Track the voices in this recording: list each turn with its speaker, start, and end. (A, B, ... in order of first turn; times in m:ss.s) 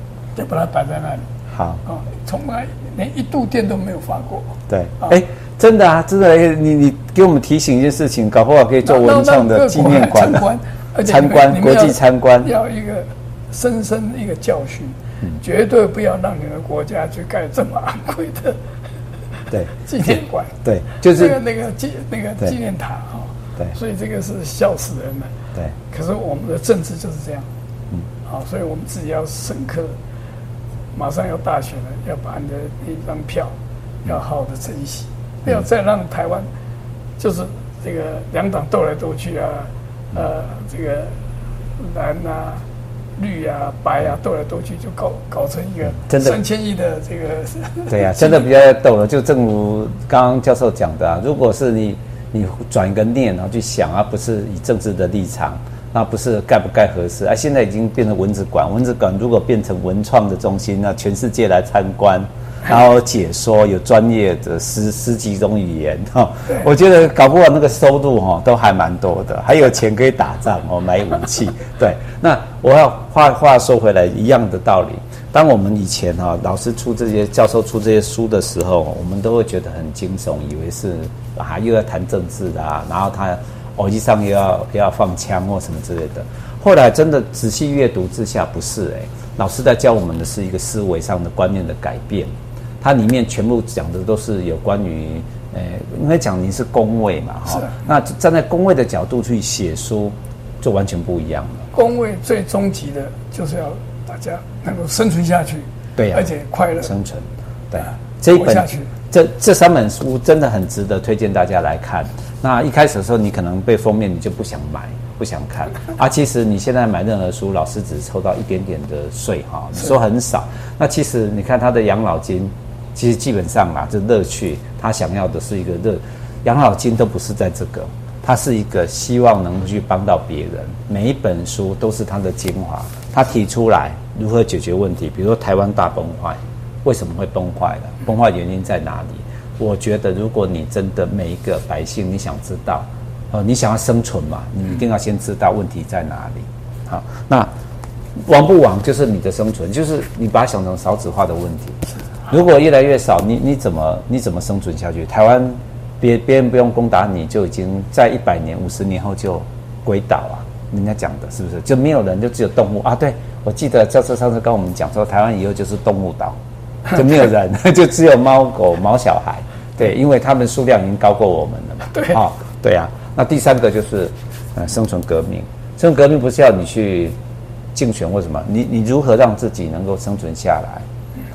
0:00.3-0:01.3 A
0:01.5-0:01.8 B
0:01.8-0:05.2 A
0:04.7-0:10.5 B
0:08.8-0:18.6 A
0:11.0-0:12.5 B
0:19.7-0:25.3 A
0:20.6-0:21.4 B
0:25.9-0:27.5 A
0:28.2-0:29.9 A
0:30.9-0:33.5 A
0:34.0-0:36.5 A
0:37.2-0:41.1 A
0:41.8-0:42.6 A
0:43.2-0:48.5 A
0:46.1-0:46.4 B
0:47.9-1:32.3 B
1:32.8-1:41.6 B
1:41.7-1:46.9 A
1:46.0-1:46.3 B
1:46.8-2:27.5 B
1:47.9-1:48.9 A
2:28.2-2:31.8 B
2:32.3-2:46.4 B
2:46.9-2:57.2 B
2:51.9-2:52.2 A
2:57.7-3:00.8 B